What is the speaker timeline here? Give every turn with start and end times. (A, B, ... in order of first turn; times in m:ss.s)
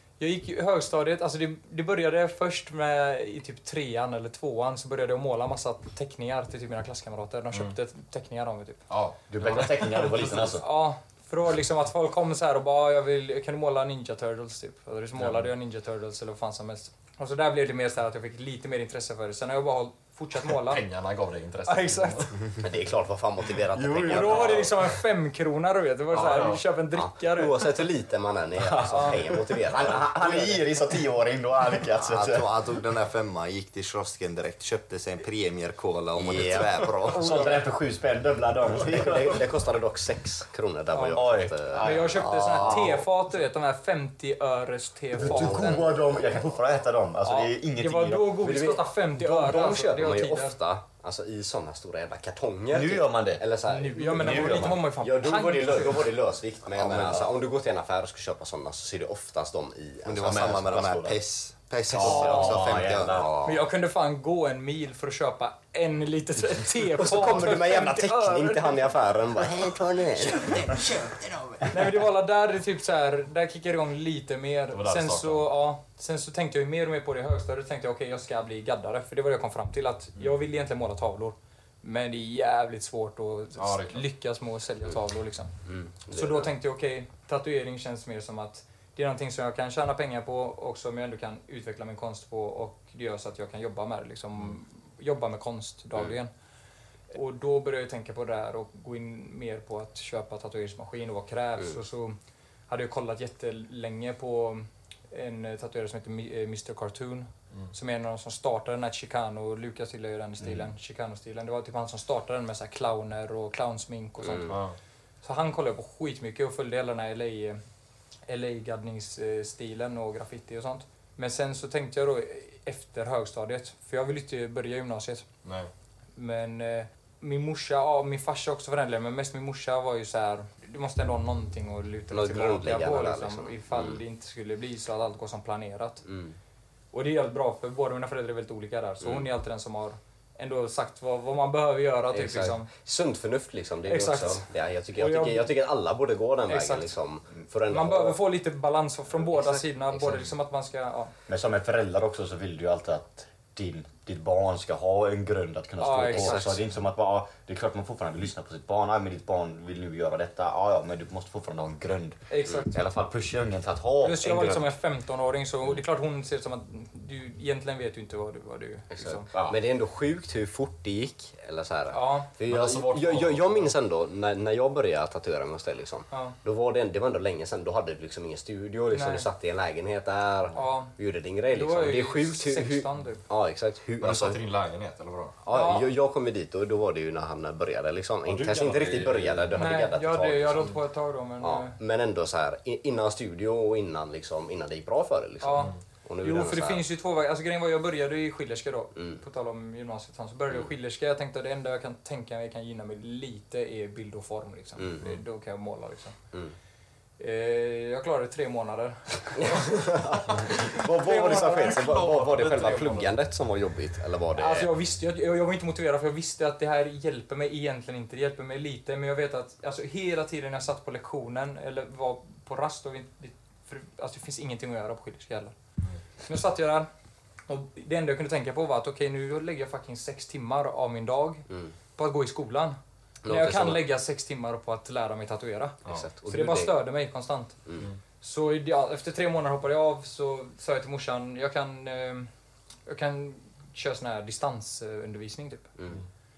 0:00.2-0:08.8 A
0:08.9-0:10.6 B
0:09.3-0:10.6 C
0:10.6-0:20.8 A
0:20.4-0:22.6 B
0:21.7-0:22.3 A
0:22.6-0:24.7 D
0:23.7-0:24.7 B
0:24.1-0:27.9 A
0:26.1-0:26.6 B
0:26.9-0:30.6 D
0:28.6-0:32.5 C
0:28.9-0:29.2 A
0:31.9-0:37.6 E
0:36.1-0:37.4 D
0:37.1-0:39.4 C
0:38.9-0:42.0 D
0:40.9-0:41.2 A
0:41.1-0:43.0 C
0:41.8-0:45.9 A
0:41.9-0:42.9 E
0:45.2-0:48.4 C
0:45.2-0:45.8 D
0:47.2-0:50.6 A
0:48.4-1:00.7 D
0:52.7-0:53.4 C
0:53.7-0:56.1 A
0:54.0-0:54.8 C
0:56.8-0:57.3 C
0:56.8-0:57.1 E
1:00.0-1:03.3 E
1:00.2-1:01.2 C
1:01.9-1:03.3 C
1:02.0-1:02.6 A
1:03.1-1:03.6 D
1:03.4-1:09.4 A
1:06.9-1:11.0 D
1:11.6-1:25.6 A
1:14.7-1:15.5 B
1:23.6-1:24.1 B
1:25.6-1:26.5 D
1:26.1-1:36.3 A
1:37.1-1:42.2 A
1:42.7-1:54.6 A
1:54.2-1:54.6 D
1:54.5-1:54.8 B
1:55.2-1:57.6 A
1:58.3-2:05.3 A
2:05.4-2:05.7 B
2:06.2-2:16.0 A
2:12.1-2:14.0 D
2:16.0-2:16.4 D
2:16.9-2:22.7 A
2:22.1-2:28.2 D
2:23.9-2:25.6 A
2:26.5-2:26.9 A
2:27.7-2:31.1 A
2:29.2-2:30.3 D
2:31.3-2:42.2 C
2:35.8-2:36.4 A
2:36.1-2:36.6 D
2:42.3-2:42.8 A
2:42.7-2:44.7 C
2:44.0-2:49.3 A
2:48.9-3:04.4 D
2:51.9-2:52.3 A
2:52.5-2:53.7 B
2:56.1-2:56.4 A
2:58.9-2:59.3 A
3:00.5-3:00.9 A
3:01.5-3:03.2 A
3:04.0-3:05.4 B
3:05.4-3:10.7 D
3:05.5-3:05.9 A
3:08.2-3:09.8 B
3:09.6-3:11.8 A
3:11.4-3:16.8 D
3:15.4-3:26.2 A
3:19.0-3:19.2 D
3:24.8-3:25.2 D
3:27.2-3:30.0 A
3:29.4-3:34.7 D
3:30.7-3:31.9 A
3:31.5-3:33.2 B
3:34.3-3:45.6 A
3:46.2-3:46.9 A
3:47.5-3:57.6 A
3:51.5-3:51.7 D
3:53.2-3:53.8 D
3:55.9-3:56.8 D
3:58.2-4:02.3 A
4:02.9-4:05.7 A